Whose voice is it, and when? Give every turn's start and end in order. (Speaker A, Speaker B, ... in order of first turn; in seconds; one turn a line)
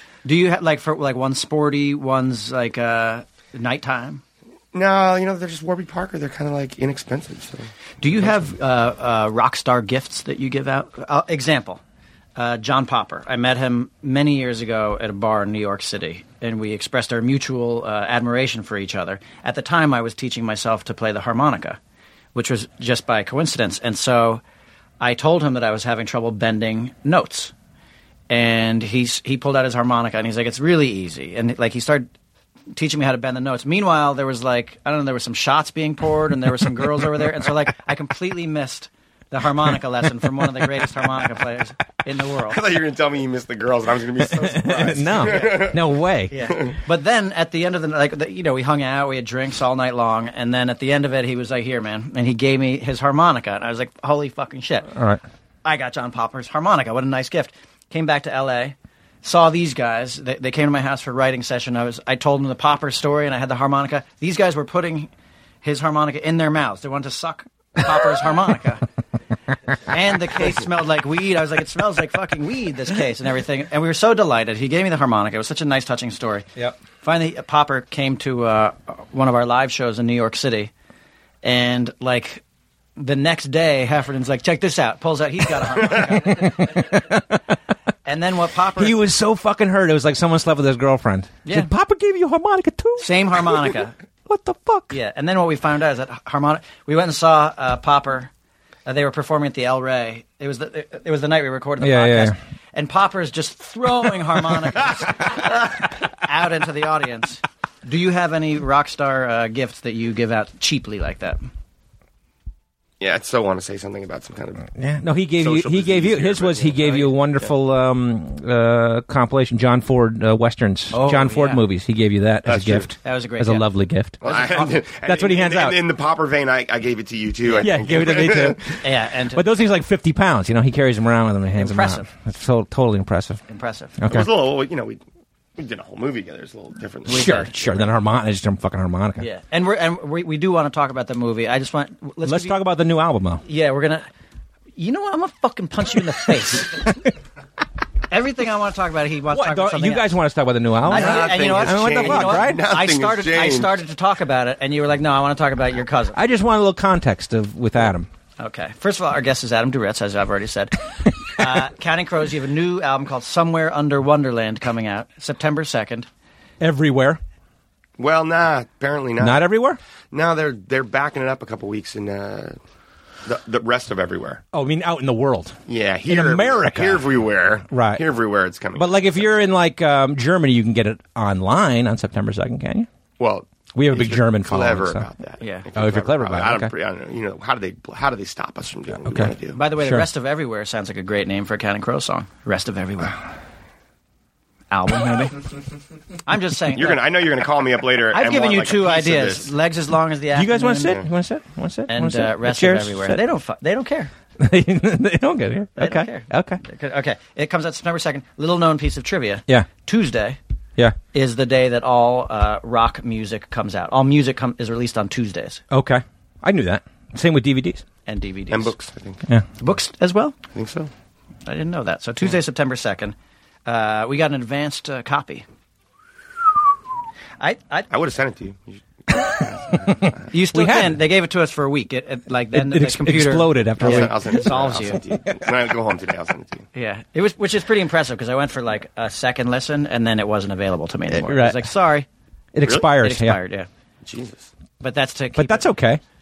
Speaker A: 0.2-4.2
Speaker B: 4.7-7.7
Speaker A: 8.0-11.8
Speaker A: 12.4-21.8
Speaker A: 22.3-24.4
Speaker A: 25.0-27.5
Speaker A: 28.3-32.1
Speaker A: 32.7-42.6
Speaker B: 42.4-45.9
Speaker C: 44.3-46.3
Speaker A: 46.3-54.9
Speaker C: 55.0-55.2
Speaker A: 55.6-65.1
Speaker A: 65.6-68.8
Speaker A: 69.9-80.7
Speaker A: 81.4-82.4
Speaker A: 83.0-86.9
Speaker C: 86.3-87.4
Speaker A: 88.0-89.0
Speaker C: 88.8-93.7
Speaker A: 91.5-91.7
Speaker A: 93.0-94.0
Speaker C: 94.3-95.0
Speaker A: 94.9-98.3
Speaker A: 98.9-111.4
Speaker C: 101.8-102.3
Speaker B: 113.0-114.7
Speaker C: 114.8-125.8
Speaker B: 115.4-117.5
Speaker A: 120.9-121.6
Speaker B: 122.5-122.9
Speaker A: 123.0-123.7
Speaker B: 124.2-128.8
Speaker C: 127.6-133.4
Speaker A: 128.8-129.5
Speaker A: 131.6-132.1
Speaker A: 133.5-134.0
Speaker C: 134.0-134.3
Speaker B: 134.1-135.0
Speaker B: 135.6-137.9
Speaker C: 137.1-139.2
Speaker A: 137.2-137.4
Speaker A: 139.2-142.6
Speaker C: 142.2-143.4
Speaker A: 143.4-144.1
Speaker A: 144.8-146.9
Speaker A: 148.1-150.1
Speaker C: 149.3-152.6
Speaker A: 150.9-156.2
Speaker B: 150.9-153.8
Speaker C: 156.2-158.1
Speaker A: 158.4-166.1
Speaker C: 166.6-167.2
Speaker B: 168.0-169.4
Speaker C: 169.2-169.8
Speaker B: 170.1-172.6
Speaker B: 173.2-174.4
Speaker C: 174.5-177.0
Speaker B: 175.7-179.2
Speaker C: 177.7-178.0
Speaker C: 178.8-182.9
Speaker B: 183.2-189.6
Speaker C: 183.7-185.1
Speaker A: 185.4-185.7
Speaker C: 185.8-186.7
Speaker C: 189.1-190.1
Speaker A: 189.5-193.2
Speaker A: 194.7-195.5
Speaker A: 196.3-197.0
Speaker B: 196.7-199.5
Speaker A: 198.1-201.0
Speaker C: 200.3-203.2
Speaker A: 201.9-204.1
Speaker C: 204.4-206.6
Speaker A: 205.8-210.4
Speaker A: 211.1-215.6
Speaker C: 215.7-217.8
Speaker A: 218.1-218.7
Speaker B: 218.5-219.2
Speaker A: 219.6-220.4
Speaker B: 220.5-220.9
Speaker A: 221.5-223.2
Speaker A: 223.7-225.4
Speaker A: 227.4-227.9
Speaker B: 227.9-230.3
Speaker C: 229.7-231.0
Speaker A: 230.3-235.0
Speaker C: 232.5-235.6
Speaker B: 233.8-236.7
Speaker A: 236.8-242.1
Speaker C: 241.1-241.7
Speaker C: 242.5-243.4
Speaker A: 242.8-243.7
Speaker B: 244.0-244.5
Speaker A: 244.8-245.7
Speaker C: 245.4-246.0